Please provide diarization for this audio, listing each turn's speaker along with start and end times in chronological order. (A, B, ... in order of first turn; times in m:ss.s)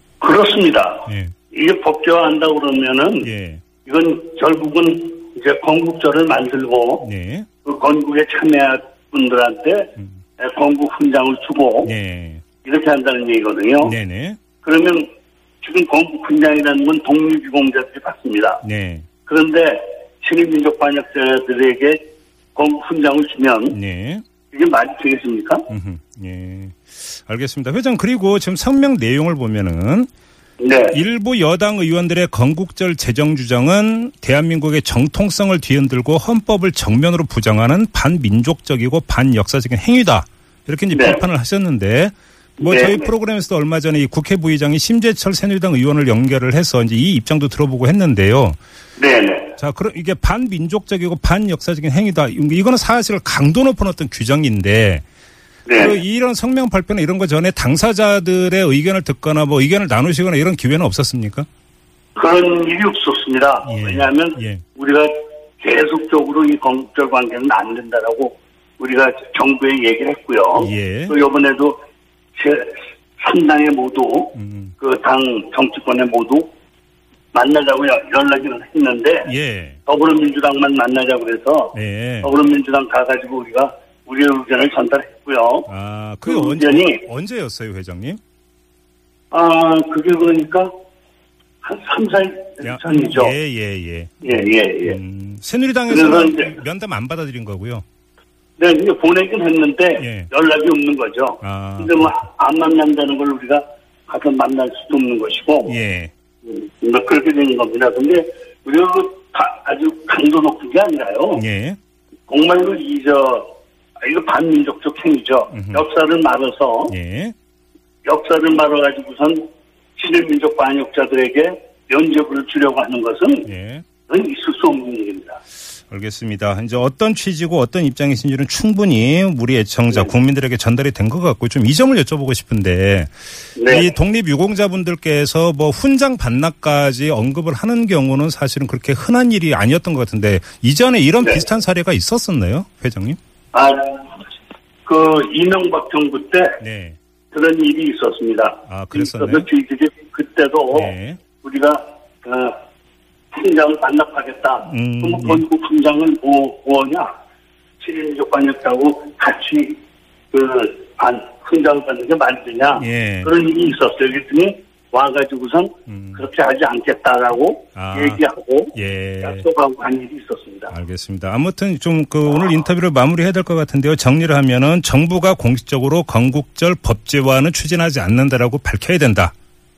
0:00.2-0:03.3 A
0:01.1-0:01.3 B
0:03.2-0:03.6 B
0:03.8-0:07.1 A
0:07.0-0:07.5 B
0:07.6-0:11.9 A
0:11.8-0:12.4 B
0:12.6-0:14.0 A
0:13.8-0:14.4 B
0:14.6-0:15.1 A
0:15.6-0:18.6 A
0:18.6-0:19.1 B
0:19.2-0:23.8 A
0:23.7-0:24.2 B
0:24.5-0:25.7 A
0:25.7-0:30.1 B
0:30.6-0:31.0 A
0:30.9-0:48.6 B
0:40.9-0:41.2 A
0:42.6-0:43.1 A
0:49.0-0:49.6 A
0:49.6-0:55.0 B
0:55.7-0:56.0 A
0:55.8-1:01.5 B
1:02.2-1:11.8 A
1:03.7-1:04.6 B
1:10.6-1:11.2 B
1:12.4-1:16.5 A
1:14.4-1:14.7 B
1:17.3-1:19.3 A
1:19.2-1:19.8 B
1:19.9-1:25.7 A
1:21.7-1:22.3 B
1:25.7-1:28.2 B
1:26.3-1:27.1 A
1:29.3-1:30.7 A
1:31.6-1:33.4 A
1:32.6-1:37.8 B
1:34.2-1:35.0 A
1:35.9-1:36.6 A
1:38.6-1:45.8 A
1:40.0-1:40.3 B
1:41.4-1:42.1 B
1:45.7-1:46.1 B
1:46.4-1:51.4 A
1:51.4-1:51.8 B
1:52.3-1:57.0 A
1:55.5-1:55.8 B
1:56.9-1:57.4 B
1:58.1-2:03.5 A
2:03.5-2:03.8 B
2:04.1-2:05.4 A
2:05.9-2:23.2 B
2:13.6-2:14.0 A
2:23.5-2:24.1 A
2:24.8-2:26.6 A
2:26.6-2:27.0 B
2:27.3-2:32.6 A
2:28.7-2:29.5 B
2:30.7-2:31.2 B
2:33.3-2:37.1 A
2:34.7-2:35.4 B
2:37.8-2:39.8 A
2:40.3-2:50.7 A
2:42.8-2:43.3 B
2:45.9-2:46.3 B
2:47.8-2:48.2 B
2:48.7-2:49.4 B
2:50.7-2:59.3 B